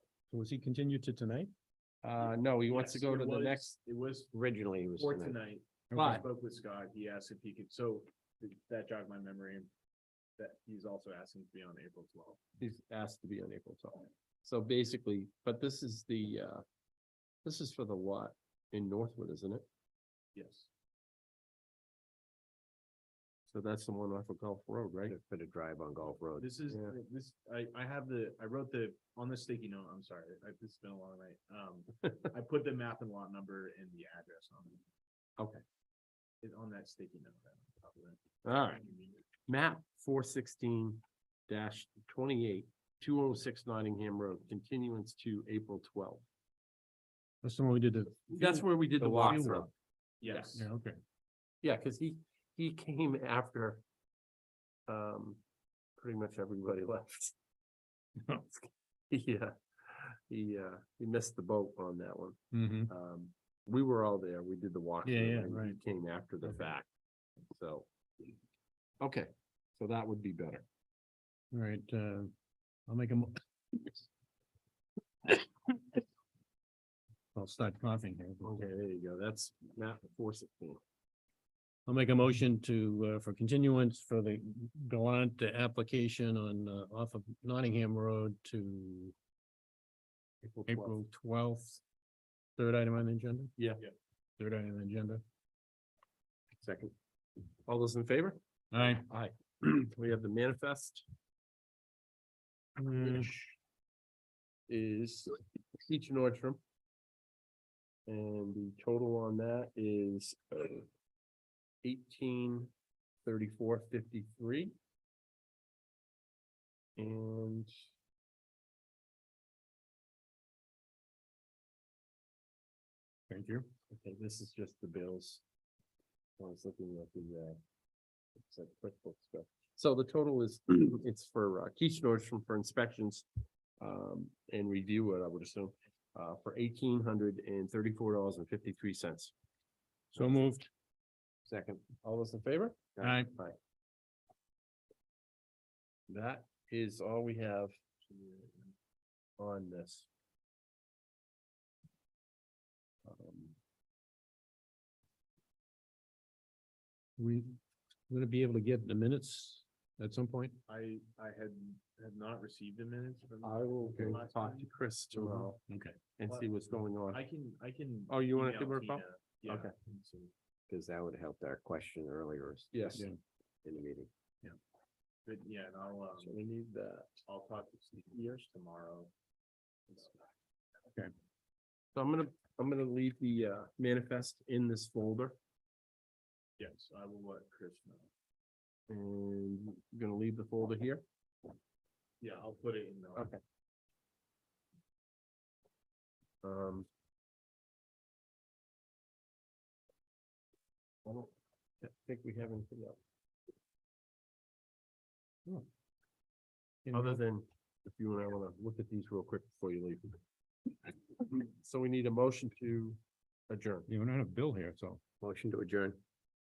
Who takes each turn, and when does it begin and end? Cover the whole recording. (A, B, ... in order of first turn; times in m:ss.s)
0:00.3-0:01.5 A
0:02.0-0:03.8 B
0:02.7-0:04.3 C
0:04.3-0:05.4 D
0:04.9-0:09.7 C
0:05.9-0:06.2 B
0:10.4-0:12.4 C
0:12.6-0:16.6 B
0:17.4-0:19.6 B
0:20.3-0:20.7 C
0:23.5-0:25.2 B
0:25.1-0:26.5 D
0:26.4-0:34.8 C
0:26.7-0:26.9 B
0:35.4-0:35.6 B
0:36.4-0:39.0 C
0:38.4-0:38.9 B
0:39.5-0:46.2 B
0:47.4-0:49.7 A
0:48.3-0:49.7 B
0:50.2-0:50.7 C
0:50.3-0:50.6 B
0:50.6-0:51.0 A
0:51.6-0:53.8 B
0:54.9-0:55.4 B
0:56.0-0:57.4 B
0:59.1-1:06.9 B
1:02.5-1:02.9 A
1:05.0-1:05.8 A
1:07.5-1:07.9 B
1:09.0-1:10.6 B
1:11.5-1:12.3 A
1:12.9-1:14.0 A
1:17.4-1:18.6 A
1:18.4-1:20.8 B
1:21.9-1:29.2 A
1:30.4-1:31.0 B
1:30.7-1:31.8 A
1:32.6-1:33.6 A
1:33.6-1:33.8 B
1:34.4-1:35.2 A
1:36.6-1:36.9 B
1:37.7-1:38.4 B
1:38.7-1:39.1 A
1:39.1-1:41.1 B
1:42.8-1:43.4 A
1:43.0-1:43.5 B
1:44.7-1:46.6 B
1:48.1-1:50.9 B
1:51.8-1:52.7 B
1:53.2-1:54.7 B
1:57.0-1:57.7 B
2:03.3-2:03.7 A
2:03.9-2:05.4 B
2:06.4-2:07.6 B
2:08.4-2:13.3 B
2:13.8-2:19.3 B
2:20.1-2:20.7 A
2:21.5-2:23.6 B
2:23.0-2:23.3 A
2:26.1-2:27.8 B
2:28.0-2:28.7 C
2:29.4-2:30.1 B
2:33.0-2:33.5 B
2:37.2-2:37.6 A
2:38.1-2:40.6 A
2:40.7-2:44.7 C
2:43.4-2:45.6 B
2:45.3-2:46.0 A
2:46.2-2:47.2 B
2:46.3-2:50.3 C
2:48.1-2:49.7 B
2:50.7-2:53.0 D
2:52.7-2:53.1 B
2:53.6-2:54.1 D
2:55.3-2:56.4 C
2:56.2-2:57.2 B
2:57.3-2:59.1 C
2:59.9-3:00.2 C
3:02.0-3:05.4 B
3:06.6-3:08.1 C
3:08.9-3:11.0 B
3:12.2-3:13.3 C
3:13.2-3:13.4 B
3:16.4-3:16.9 B
3:21.1-3:23.0 B
3:26.9-3:27.2 A
3:26.9-3:30.2 B
3:31.3-3:33.9 B
3:33.9-3:35.0 A
3:35.2-3:36.0 D